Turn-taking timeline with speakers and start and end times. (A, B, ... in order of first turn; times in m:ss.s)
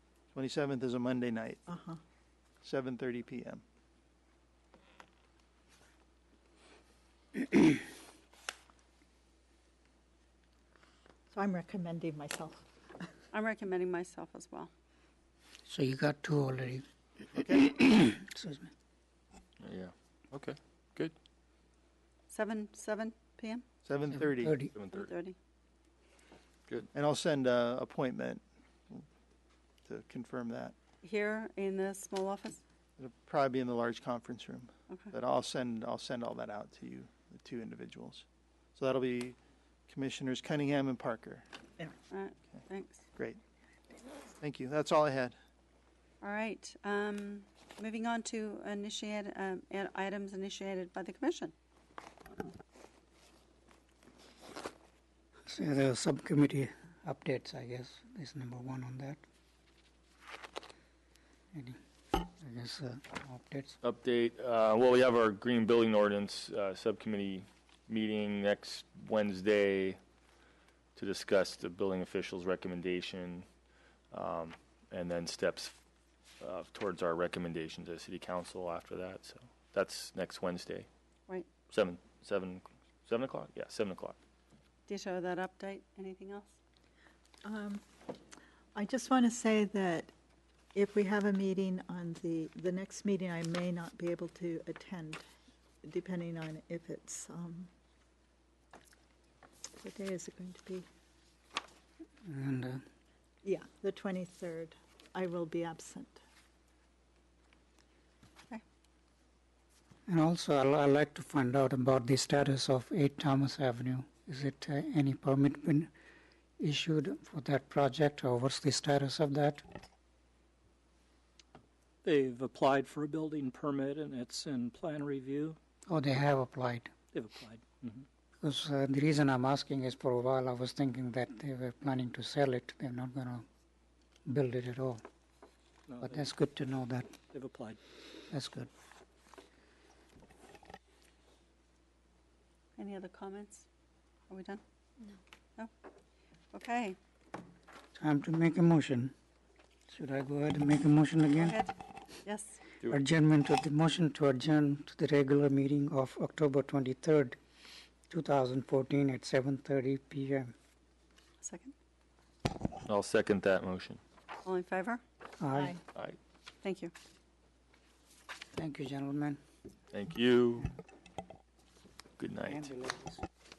0:00.3-0:01.6 A
0:01.7-0:02.0 B
0:02.6-0:03.6 A
0:11.3-0:12.6 B
0:13.3-0:14.7 C
0:15.7-0:16.8 D
0:17.4-0:17.7 A
0:17.4-0:18.7 D
0:19.6-0:21.1 E
0:22.3-0:23.6 C
0:23.8-0:24.6 A
0:24.2-0:24.7 D
0:24.7-0:25.1 E
0:24.9-0:25.4 C
0:26.9-0:29.0 A
0:29.8-0:30.7 A
0:31.0-0:32.6 C
0:33.0-0:38.2 A
0:38.8-0:39.4 A
0:39.9-0:41.4 A
0:42.1-0:43.0 C
0:44.4-0:45.4 A
0:46.2-0:51.5 C
0:55.4-0:59.2 D
1:01.5-1:01.8 D
1:02.4-1:03.8 D
1:03.8-1:10.0 E
1:11.0-1:13.4 E
1:14.1-1:15.7 E
1:16.4-1:20.9 E
1:21.7-1:24.2 E
1:24.9-1:26.5 C
1:27.4-1:27.8 B
1:28.7-1:30.1 B
1:30.7-1:35.2 B
1:35.8-1:37.7 B
1:39.8-1:40.9 B
1:42.2-1:42.8 D
1:43.4-1:46.2 B
1:50.1-1:55.9 D
1:56.6-1:59.6 D
2:02.0-2:05.6 F
2:05.9-2:06.9 D
2:07.1-2:08.0 F
2:08.4-2:13.4 D
2:14.2-2:15.0 D
2:15.9-2:16.2 F
2:16.0-2:17.1 D
2:17.3-2:17.8 F
2:18.3-2:18.7 D
2:22.8-2:23.6 C
2:24.3-2:24.6 C
2:26.5-2:27.0 C
2:28.0-2:29.1 D
2:29.9-2:31.6 D
2:31.4-2:31.7 C
2:32.2-2:32.6 C
2:32.8-2:37.4 D
2:38.1-2:40.5 D
2:41.4-2:41.7 C
2:42.8-2:44.0 E
2:44.4-2:45.0 C
2:45.4-2:45.7 D
2:45.5-2:45.8 B
2:46.6-2:46.9 C
2:48.5-2:49.4 D
2:49.9-2:50.7 E
2:52.2-2:52.7 E
2:52.4-2:53.2 D